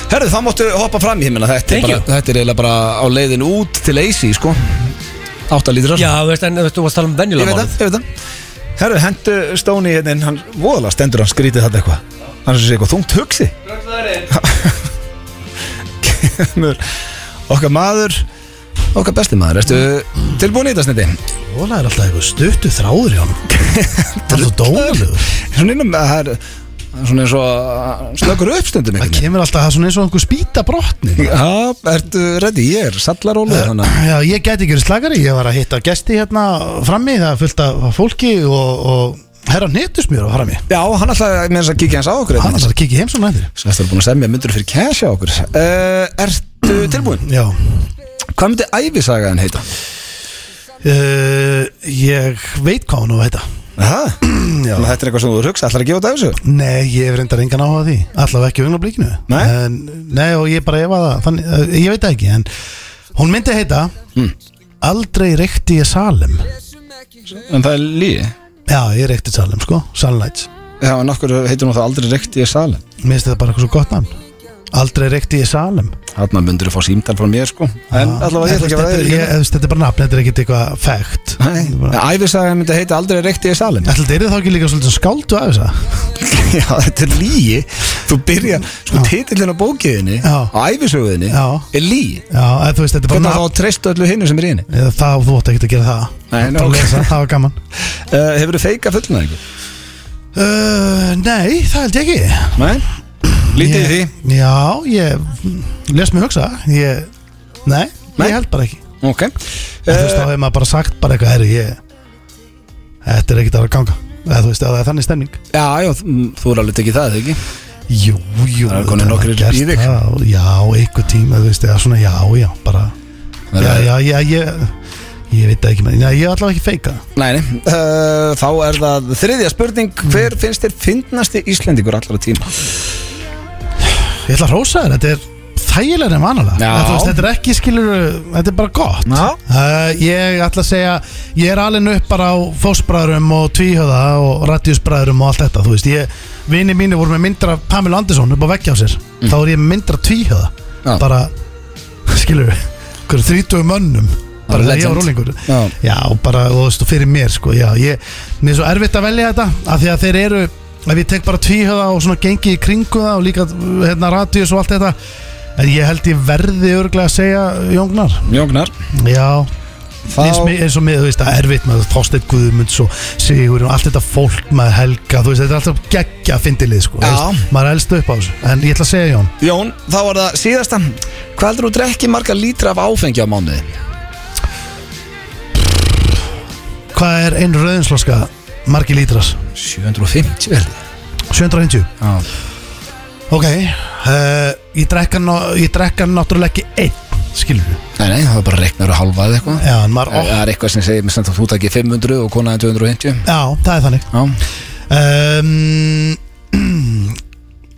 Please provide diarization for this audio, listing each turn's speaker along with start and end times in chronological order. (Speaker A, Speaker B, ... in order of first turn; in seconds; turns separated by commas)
Speaker A: 0.1-4.9, Speaker B: 1.7-2.0, Speaker A: 5.5-6.1, Speaker B: 6.0-7.8, Speaker A: 7.4-8.0, Speaker A: 8.8-13.5, Speaker B: 13.7-14.3, Speaker A: 14.3-14.8, Speaker A: 16.0-16.8, Speaker A: 17.5-18.2, Speaker A: 18.9-21.2, Speaker C: 21.5-23.4, Speaker A: 23.5-26.4, Speaker C: 24.3-25.2, Speaker A: 26.9-29.2, Speaker C: 29.0-31.4, Speaker A: 31.2-34.0, Speaker C: 33.5-40.6, Speaker A: 40.7-42.7, Speaker C: 42.4-43.5, Speaker A: 43.6-47.2, Speaker C: 47.2-47.6, Speaker A: 48.4-49.6, Speaker C: 50.8-53.4, Speaker A: 53.8-56.4, Speaker C: 54.2-54.9, Speaker C: 56.4-62.5, Speaker A: 59.3-59.5, Speaker C: 63.1-64.0, Speaker C: 64.8-66.5, Speaker A: 67.3-68.3, Speaker C: 68.7-70.5, Speaker A: 70.8-72.8, Speaker C: 73.0-74.2, Speaker C: 74.7-76.0, Speaker A: 76.2-79.3, Speaker C: 77.9-82.0, Speaker A: 81.4-83.9, Speaker C: 83.8-85.9, Speaker A: 86.2-92.2, Speaker C: 90.2-90.5, Speaker C: 91.3-91.7, Speaker C: 92.3-93.5, Speaker A: 93.1-94.7, Speaker C: 94.7-97.6, Speaker A: 96.3-97.1, Speaker A: 98.1-99.4, Speaker C: 100.3-107.1, Speaker A: 102.6-102.8, Speaker A: 103.5-104.1, Speaker C: 107.7-108.8, Speaker A: 109.0-110.3, Speaker C: 109.9-111.8, Speaker C: 113.0-115.4, Speaker A: 115.5-117.4, Speaker C: 117.9-122.9, Speaker A: 118.7-120.0, Speaker A: 123.5-123.9, Speaker C: 123.6-124.7, Speaker C: 125.3-127.0, Speaker A: 127.2-132.7, Speaker C: 133.9-151.3, Speaker A: 136.6-137.2, Speaker A: 139.1-139.4, Speaker C: 152.1-165.0, Speaker A: 154.5-155.7, Speaker C: 165.6-168.4, Speaker A: 168.3-168.7, Speaker C: 168.9-169.5, Speaker A: 170.1-170.6, Speaker C: 170.1-179.3, Speaker A: 177.0-177.4, Speaker A: 179.4-183.7, Speaker C: 186.9-189.4, Speaker A: 189.6-190.8, Speaker C: 191.3-191.9, Speaker A: 192.0-192.3, Speaker C: 193.3-197.8, Speaker A: 198.0-203.3, Speaker C: 199.6-200.4, Speaker C: 203.2-204.1, Speaker A: 204.1-204.4, Speaker C: 204.9-207.2